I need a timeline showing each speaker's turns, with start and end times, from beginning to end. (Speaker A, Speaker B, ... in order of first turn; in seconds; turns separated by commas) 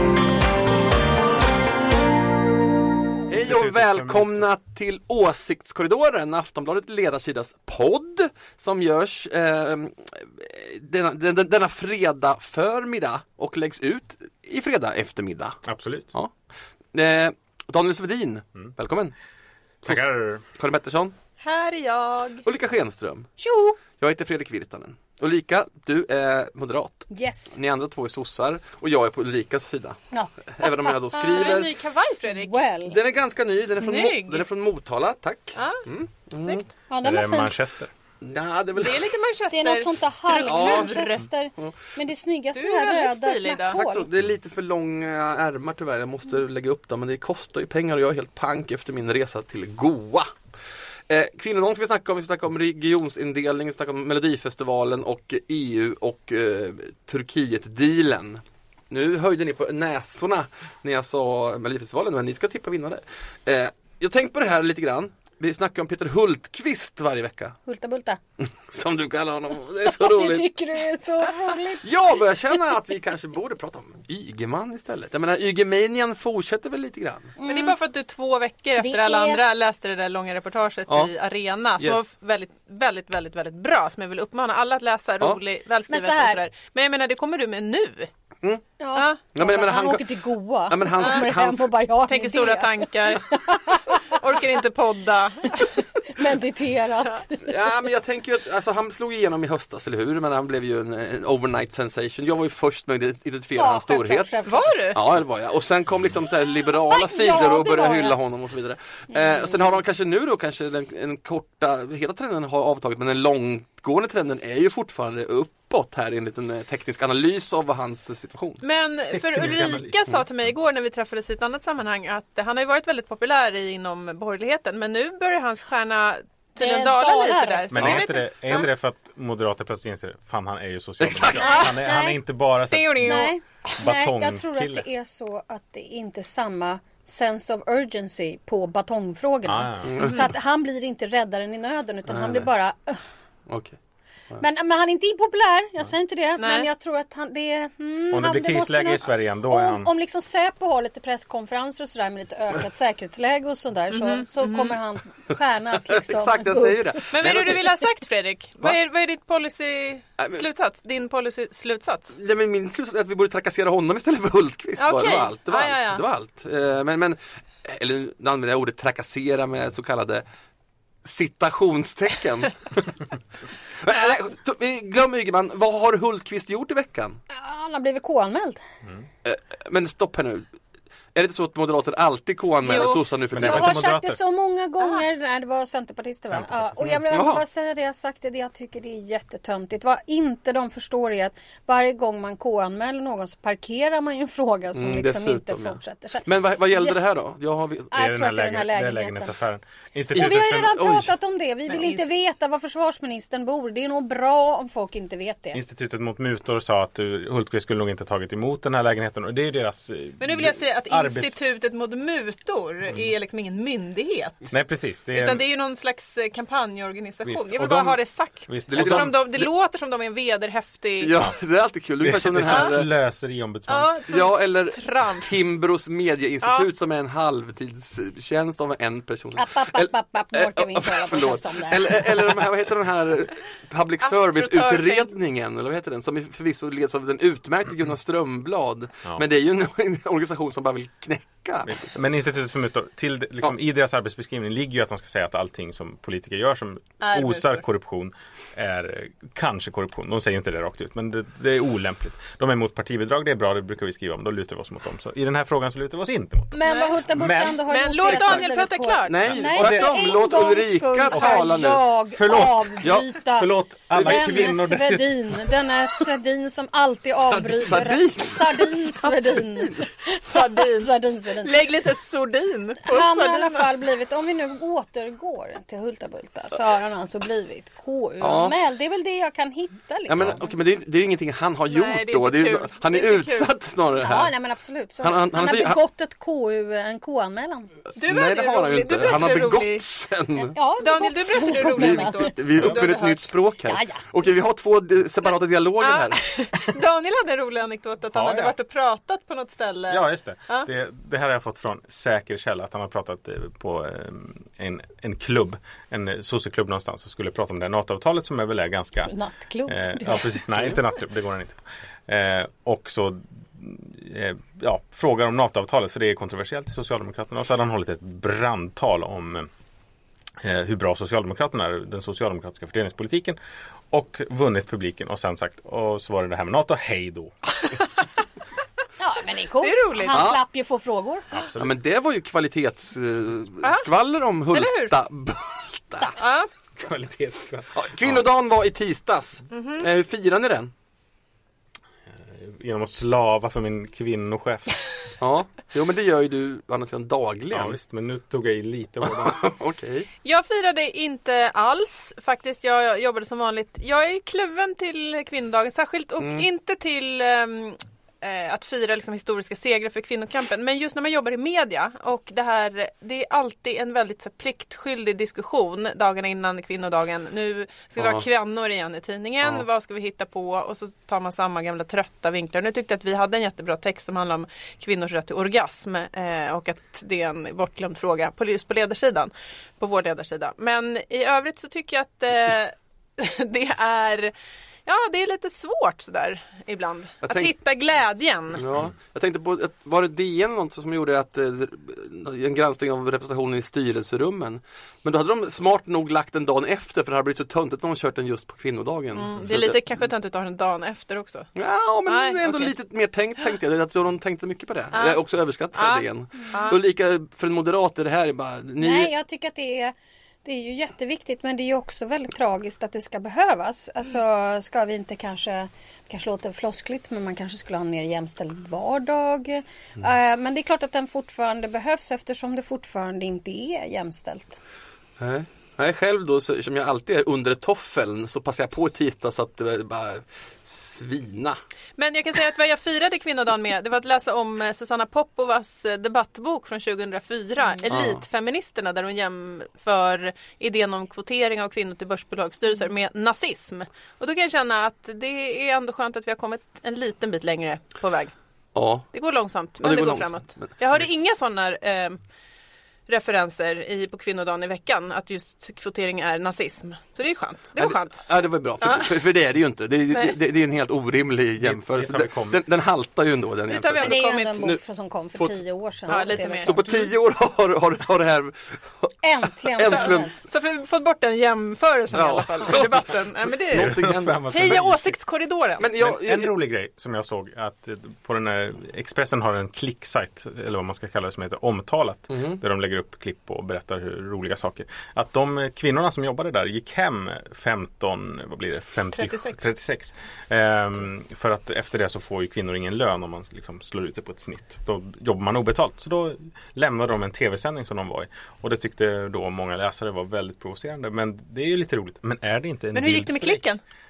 Speaker A: 3.3-15.6, Speaker B: 3.4-4.5, Speaker B: 15.6-16.1, Speaker A: 16.9-19.1, Speaker B: 19.8-20.4, Speaker A: 20.6-21.1, Speaker C: 21.4-22.4, Speaker A: 22.4-23.3, Speaker D: 23.4-23.8, Speaker A: 23.9-30.0, Speaker D: 27.1-27.6, Speaker D: 30.1-31.6, Speaker A: 30.5-31.7, Speaker C: 31.1-32.6, Speaker D: 32.3-33.0, Speaker A: 32.8-36.7, Speaker C: 33.8-34.5, Speaker C: 35.6-35.8, Speaker D: 36.9-37.6, Speaker B: 37.0-37.9, Speaker A: 38.2-39.1, Speaker C: 38.7-41.2, Speaker D: 39.5-44.1, Speaker A: 40.4-41.7, Speaker C: 42.5-43.8, Speaker A: 43.7-50.3, Speaker A: 51.1-67.6, Speaker D: 67.7-68.2, Speaker A: 68.4-70.5, Speaker D: 69.8-71.9, Speaker A: 71.8-77.3, Speaker D: 77.4-77.8, Speaker C: 77.5-88.1, Speaker D: 78.8-79.4, Speaker A: 81.8-82.0, Speaker D: 85.9-86.4, Speaker D: 88.8-94.5, Speaker C: 88.9-89.2, Speaker A: 89.3-90.0, Speaker A: 90.7-91.7, Speaker C: 92.1-95.7, Speaker D: 95.5-97.8, Speaker A: 97.4-104.3, Speaker D: 103.6-104.7, Speaker C: 104.4-105.0, Speaker A: 104.9-118.6, Speaker D: 106.9-108.2, Speaker D: 109.1-109.4, Speaker C: 118.6-128.7, Speaker B: 119.1-120.2, Speaker D: 126.6-127.7, Speaker B: 127.7-133.3, Speaker A: 127.8-128.0, Speaker A: 131.0-131.7, Speaker D: 131.4-132.2, Speaker C: 132.7-133.3, Speaker D: 133.0-143.0, Speaker B: 133.8-134.8, Speaker B: 139.4-139.9, Speaker A: 139.9-140.3, Speaker A: 142.1-142.5, Speaker A: 143.5-143.8, Speaker D: 144.4-157.0, Speaker C: 146.4-146.7, Speaker B: 148.1-149.9, Speaker C: 153.9-154.8, Speaker A: 156.1-157.7, Speaker C: 157.1-162.2, Speaker A: 160.2-160.4, Speaker A: 162.1-170.2, Speaker C: 164.8-166.0, Speaker A: 171.0-173.1, Speaker A: 173.8-177.2, Speaker D: 177.3-178.6, Speaker A: 179.2-180.4, Speaker A: 181.1-183.8, Speaker C: 182.6-183.0, Speaker D: 182.7-197.0, Speaker B: 183.3-184.2, Speaker B: 186.3-187.0, Speaker A: 187.1-187.4, Speaker A: 194.8-197.9, Speaker D: 197.9-199.3, Speaker B: 197.9-200.8, Speaker D: 200.1-205.6, Speaker A: 200.1-201.1, Speaker C: 201.7-201.9, Speaker B: 205.5-211.4, Speaker C: 210.2-214.5, Speaker B: 214.5-215.4, Speaker C: 215.1-221.2, Speaker B: 217.2-219.2, Speaker A: 218.7-219.5, Speaker A: 221.0-222.9, Speaker B: 222.0-223.9, Speaker C: 222.5-222.8, Speaker C: 223.7-225.3, Speaker A: 224.1-242.0, Speaker C: 226.4-226.7, Speaker D: 229.3-232.1, Speaker C: 234.0-235.1, Speaker B: 241.7-257.6, Speaker C: 247.0-247.6, Speaker D: 256.5-271.5, Speaker C: 256.6-256.9, Speaker C: 257.6-259.3, Speaker A: 258.0-258.5, Speaker A: 259.1-261.8, Speaker B: 259.5-260.0, Speaker B: 261.1-261.5, Speaker B: 262.1-265.6, Speaker A: 263.9-264.5, Speaker A: 267.3-269.9, Speaker C: 270.3-270.9, Speaker C: 271.4-273.8, Speaker D: 272.9-280.5, Speaker A: 278.2-278.5, Speaker A: 280.1-284.3, Speaker C: 281.7-283.5, Speaker D: 284.0-287.8, Speaker A: 285.0-285.8, Speaker C: 287.9-289.8, Speaker A: 288.0-290.5, Speaker D: 290.5-292.3, Speaker C: 290.6-293.3, Speaker A: 291.5-296.2, Speaker D: 293.6-294.1, Speaker C: 295.8-300.7, Speaker B: 298.1-298.5, Speaker B: 299.9-309.1, Speaker D: 309.0-310.4, Speaker B: 309.7-319.5, Speaker B: 320.4-323.4, Speaker B: 323.9-327.3, Speaker D: 329.0-331.2, Speaker C: 329.6-330.2, Speaker A: 330.1-330.4, Speaker B: 331.3-331.8, Speaker A: 331.6-336.2, Speaker C: 333.6-333.9, Speaker C: 334.5-334.9, Speaker C: 336.1-336.5, Speaker B: 336.8-338.2, Speaker A: 337.7-340.7, Speaker C: 339.5-339.9, Speaker B: 342.3-344.7, Speaker A: 345.2-347.8, Speaker B: 347.5-349.4, Speaker A: 349.0-350.1, Speaker C: 350.2-384.3, Speaker A: 356.2-356.4, Speaker A: 368.0-368.2, Speaker C: 384.9-388.6, Speaker A: 387.2-387.5, Speaker A: 388.5-399.8, Speaker C: 399.1-401.5, Speaker A: 401.6-409.1, Speaker C: 402.1-402.7, Speaker C: 404.9-405.2, Speaker C: 405.7-406.8, Speaker D: 408.8-409.9, Speaker D: 410.4-424.6, Speaker A: 425.2-431.6, Speaker C: 432.0-448.3, Speaker A: 437.9-438.2, Speaker A: 448.8-449.1, Speaker C: 449.1-452.2, Speaker A: 449.8-450.8, Speaker C: 453.1-458.3, Speaker A: 457.8-464.8, Speaker C: 458.8-459.2, Speaker C: 460.1-460.4, Speaker B: 461.6-462.6, Speaker C: 463.7-464.6, Speaker D: 464.0-466.9, Speaker A: 465.4-469.1, Speaker C: 466.1-467.1, Speaker D: 469.2-470.4, Speaker A: 469.7-470.4, Speaker C: 469.9-473.9, Speaker A: 472.1-473.1, Speaker A: 473.7-474.4, Speaker B: 473.7-475.1, Speaker C: 474.5-475.9, Speaker A: 475.8-476.5, Speaker B: 476.0-503.6, Speaker A: 482.3-482.6, Speaker C: 489.1-489.6, Speaker C: 502.9-503.8